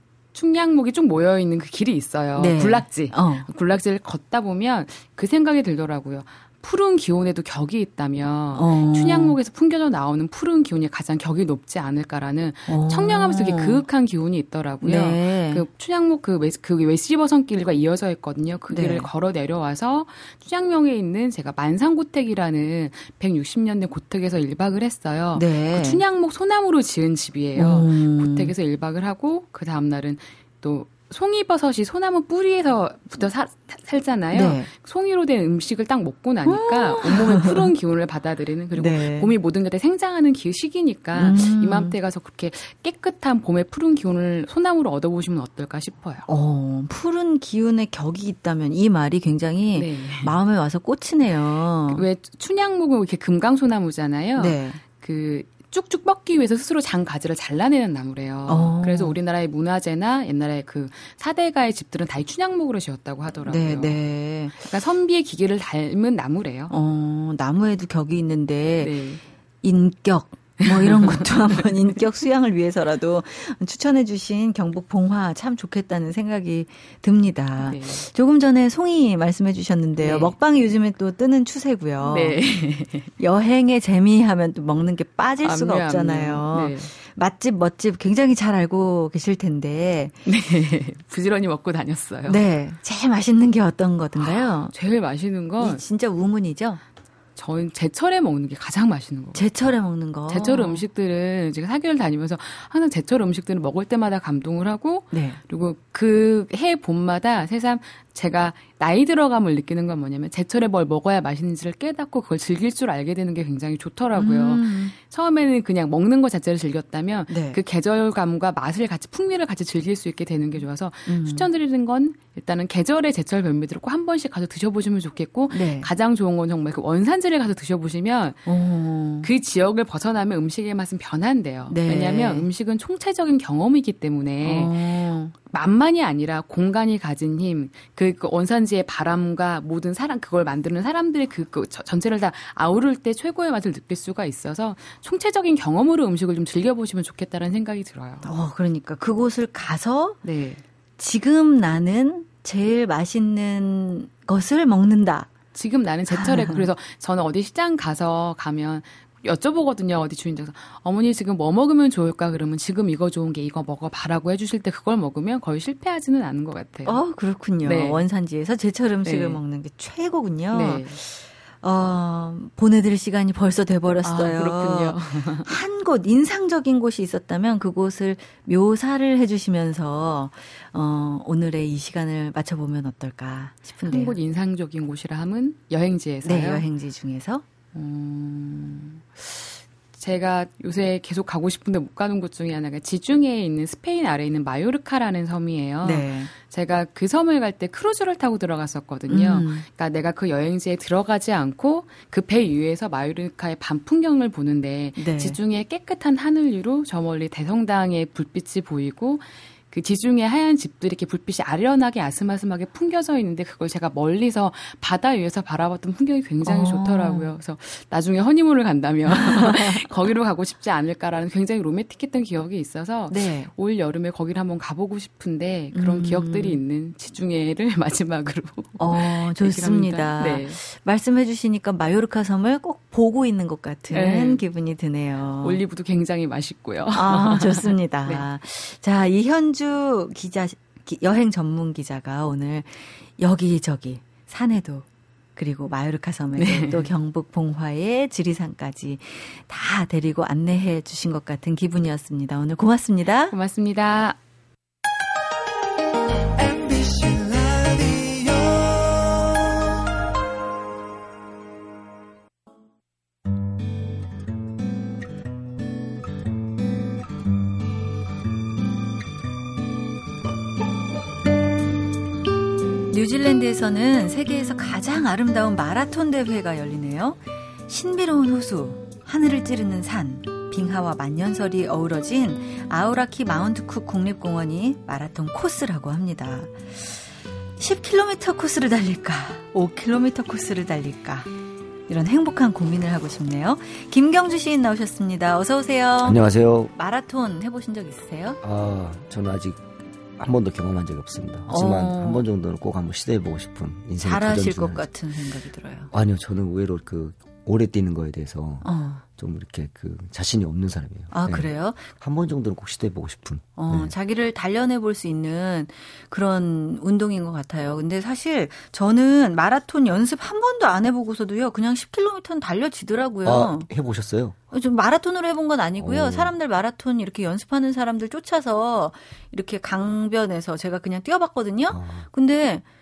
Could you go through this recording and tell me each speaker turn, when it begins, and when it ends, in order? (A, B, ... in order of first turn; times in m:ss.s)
0:00.3-0:46.3 A
0:02.4-0:03.5 B
0:08.5-0:09.4 B
0:12.7-0:13.8 B
0:14.8-0:15.6 B
0:18.7-0:19.1 B
0:25.4-0:26.0 B
0:27.6-0:28.5 B
0:34.3-0:34.7 B
0:36.5-0:37.7 B
0:38.7-0:39.3 B
0:41.1-0:42.0 B
0:46.3-0:52.0 B
0:49.8-0:50.4 A
0:51.9-1:04.0 A
0:54.4-0:54.8 B
0:58.5-0:59.2 B
1:03.5-1:04.7 B
1:04.5-1:06.8 A
1:06.7-1:09.0 B
1:08.8-1:09.2 A
1:09.6-1:22.4 B
1:10.6-1:11.7 A
1:17.6-1:18.1 A
1:20.0-1:20.4 A
1:22.0-1:23.1 A
1:23.2-1:30.2 B
1:25.4-1:26.9 A
1:30.3-1:32.4 A
1:32.3-1:34.7 B
1:34.2-1:35.8 A
1:35.6-1:36.8 B
1:37.4-1:39.7 A
1:39.4-1:40.9 B
1:40.3-2:08.5 A
1:45.1-1:45.4 B
1:54.1-1:55.0 B
1:57.3-1:57.6 B
2:01.1-2:01.5 B
2:05.5-2:05.9 B
2:08.5-2:09.3 B
2:09.2-2:14.9 A
2:11.7-2:12.5 B
2:14.4-2:15.3 B
2:15.4-2:28.3 A
2:28.2-2:30.2 B
2:30.2-2:30.6 A
2:31.0-2:35.3 B
2:35.5-2:47.0 A
2:36.2-2:36.6 B
2:46.8-3:04.2 B
2:47.6-2:48.1 A
2:49.0-2:49.4 A
2:50.5-2:51.0 A
2:54.0-2:55.5 A
3:03.9-3:06.6 A
3:06.2-3:07.4 B
3:07.7-3:50.6 A
3:15.8-3:16.3 B
3:19.1-3:19.6 B
3:25.0-3:25.4 B
3:36.4-3:37.3 B
3:39.1-3:39.8 B
3:43.1-3:43.5 B
3:45.7-3:46.6 B
3:48.8-3:55.6 B
3:53.9-3:54.4 A
3:55.4-3:58.3 A
3:56.9-4:13.4 B
4:06.4-4:06.9 A
4:13.3-4:14.2 A
4:32.9-4:47.0 B
4:47.6-4:51.3 B
4:51.9-4:56.2 B
4:56.0-4:56.7 C
4:56.7-4:58.4 B
4:58.4-5:04.8 C
5:01.5-5:02.2 B
5:04.0-5:05.9 B
5:05.9-5:13.9 C
5:08.6-5:09.0 B
5:11.1-5:11.9 B
5:13.6-5:23.7 B
5:23.2-5:24.4 C
5:24.5-5:32.6 B
5:25.8-5:26.3 C
5:31.7-5:32.0 C